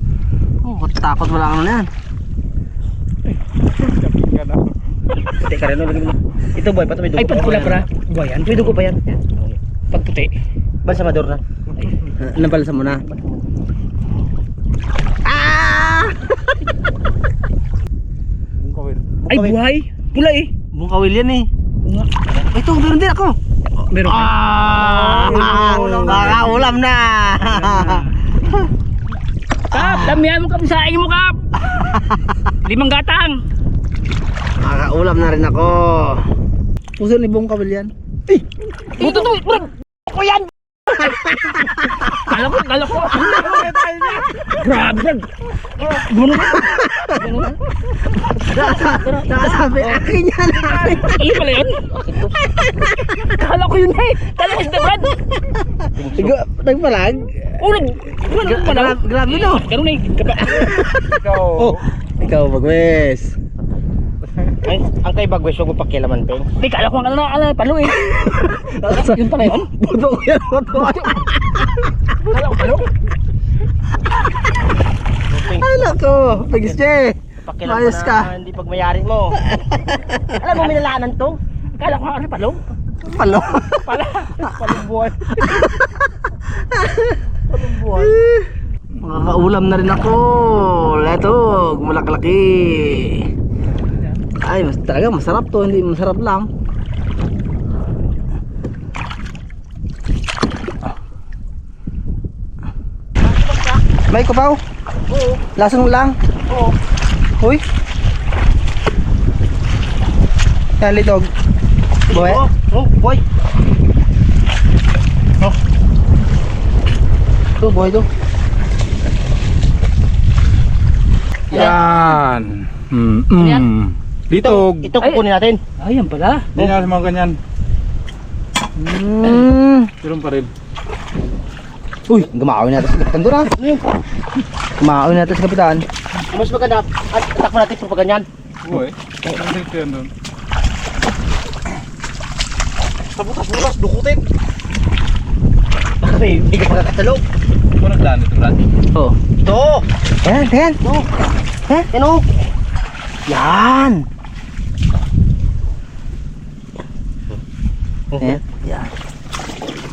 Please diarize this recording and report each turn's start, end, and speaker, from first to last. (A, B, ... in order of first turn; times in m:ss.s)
0:00.6-0:01.9 A
0:03.8-0:04.7 B
0:05.3-0:07.9 C
0:07.2-0:10.3 D
0:10.8-0:11.4 C
0:12.2-0:13.0 A
0:15.2-0:16.5 A
0:18.6-0:19.0 B
0:19.3-0:20.5 D
0:20.7-0:21.5 A
0:21.8-0:22.1 D
0:22.5-0:23.4 A
0:23.7-0:26.6 D
0:24.0-0:28.7 A
0:25.1-0:26.6 B
0:27.4-0:28.1 D
0:29.7-0:30.3 A
0:29.7-0:31.5 D
0:31.7-0:32.2 A
0:32.6-0:33.4 D
0:34.6-0:36.3 A
0:37.0-0:38.4 A
0:39.0-0:39.3 A
0:39.0-0:40.4 D
0:41.0-0:42.4 A
0:42.0-0:43.6 D
0:43.0-0:44.4 A
0:44.4-0:45.3 D
0:45.8-0:47.6 D
0:46.4-0:47.5 A
0:48.2-0:50.0 D
0:48.5-0:51.4 A
0:50.6-0:52.3 D
0:52.0-0:52.3 C
0:52.4-0:53.3 A
0:53.1-0:55.2 D
0:55.6-0:57.5 A
0:56.0-0:56.4 C
0:57.6-1:00.7 D
0:58.2-0:59.7 A
1:00.3-1:03.4 A
1:01.0-1:01.8 B
1:04.6-1:06.5 C
1:06.6-1:09.7 D
1:08.0-1:11.9 A
1:10.8-1:11.2 D
1:12.2-1:12.9 D
1:15.3-1:15.9 C
1:15.5-1:18.3 A
1:17.5-1:19.4 C
1:19.5-1:20.4 A
1:20.4-1:21.4 C
1:21.8-1:22.6 D
1:23.0-1:23.9 A
1:23.8-1:25.3 D
1:25.4-1:26.0 A
1:26.6-1:27.2 A
1:27.5-1:27.9 C
1:28.0-1:33.3 A
1:34.4-1:36.5 A
1:43.2-1:43.8 C
1:44.1-1:44.6 A
1:45.1-1:45.4 C
1:45.6-1:46.2 A
1:46.5-1:46.8 C
1:50.8-1:51.3 A
1:52.1-1:53.2 C
1:52.1-1:52.4 A
1:57.6-1:58.1 A
2:01.5-2:04.9 B
2:03.4-2:03.7 D
2:04.3-2:05.6 C
2:05.8-2:06.5 D
2:06.6-2:07.4 B
2:08.8-2:09.9 A
2:10.0-2:10.5 B
2:12.1-2:13.5 A
2:13.6-2:13.8 C
2:14.8-2:15.8 A
2:16.3-2:18.3 C
2:18.6-2:20.1 B
2:23.2-2:24.2 B
2:26.0-2:27.2 C
2:27.8-2:28.7 B
2:29.4-2:29.9 C
2:30.2-2:30.8 A
2:30.8-2:31.1 C
2:31.9-2:32.3 C
2:33.3-2:34.1 A
2:38.1-2:38.4 C
2:38.2-2:38.9 A